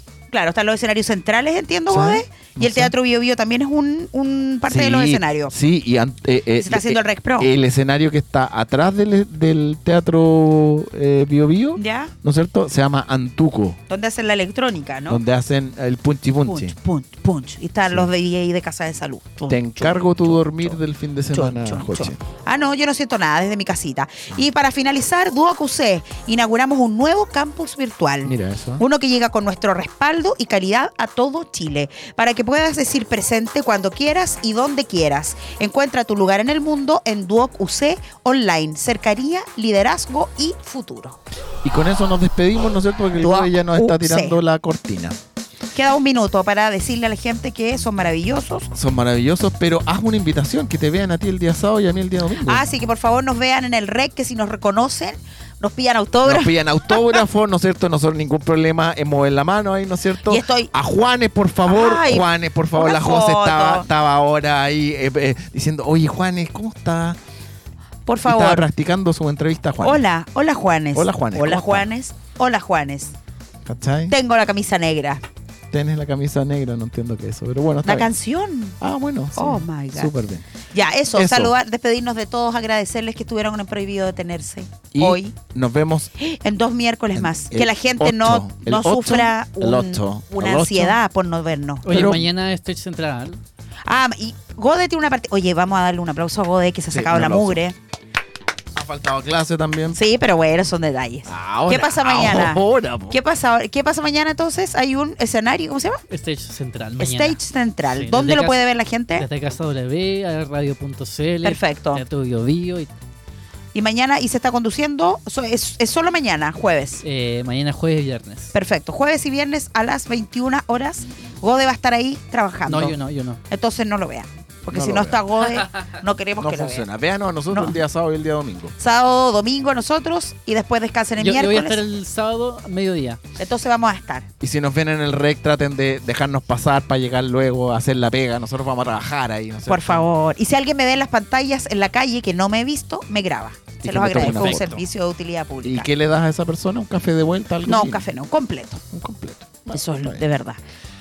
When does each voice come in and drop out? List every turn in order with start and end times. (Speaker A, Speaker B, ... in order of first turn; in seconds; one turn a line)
Speaker A: 0.3-5.5
Speaker B: 1.9-2.9
Speaker B: 4.7-13.8
Speaker A: 6.6-7.5
Speaker A: 11.8-12.1
Speaker A: 13.9-15.2
Speaker B: 15.1-16.8
Speaker A: 16.4-20.8
Speaker B: 19.5-22.2
Speaker A: 21.3-41.2
Speaker B: 28.2-28.8
Speaker B: 41.6-45.2
Speaker A: 43.2-44.4
Speaker A: 45.8-48.7
Speaker B: 48.7-52.6
Speaker A: 52.5-57.2
Speaker B: 56.2-67.2
Speaker A: 60.3-60.7
Speaker A: 61.7-63.9
Speaker A: 68.1-68.7
Speaker B: 68.2-70.0
Speaker A: 69.8-73.1
Speaker B: 70.9-71.9
Speaker B: 73.7-74.2
Speaker A: 74.1-75.2
Speaker B: 75.7-78.1
Speaker A: 77.8-78.8
Speaker B: 78.8-80.5
Speaker A: 79.3-80.1
Speaker A: 80.7-85.3
Speaker B: 81.1-81.5
Speaker B: 84.9-86.1
Speaker A: 86.2-91.9
Speaker B: 87.2-91.0
Speaker C: 91.8-93.4
Speaker B: 91.9-92.3
Speaker A: 93.9-97.8
Speaker B: 96.9-97.6
Speaker B: 98.7-100.0
Speaker A: 100.0-106.0
Speaker B: 101.3-103.2
Speaker C: 106.1-108.6
Speaker A: 107.0-109.3
Speaker C: 109.2-112.9
Speaker A: 111.4-112.0
Speaker A: 113.7-117.0
Speaker C: 117.0-118.5
Speaker A: 118.5-123.0
Speaker C: 122.7-123.4
Speaker A: 123.5-126.9
Speaker B: 124.7-125.3
Speaker B: 126.4-128.7
Speaker A: 127.5-127.8
Speaker A: 128.8-131.8
Speaker C: 131.2-133.2
Speaker A: 133.4-134.3
Speaker B: 134.4-140.1
Speaker A: 139.7-145.9
Speaker B: 143.8-144.8
Speaker B: 145.6-148.2
Speaker A: 147.7-148.8
Speaker B: 148.9-150.2
Speaker A: 149.7-150.6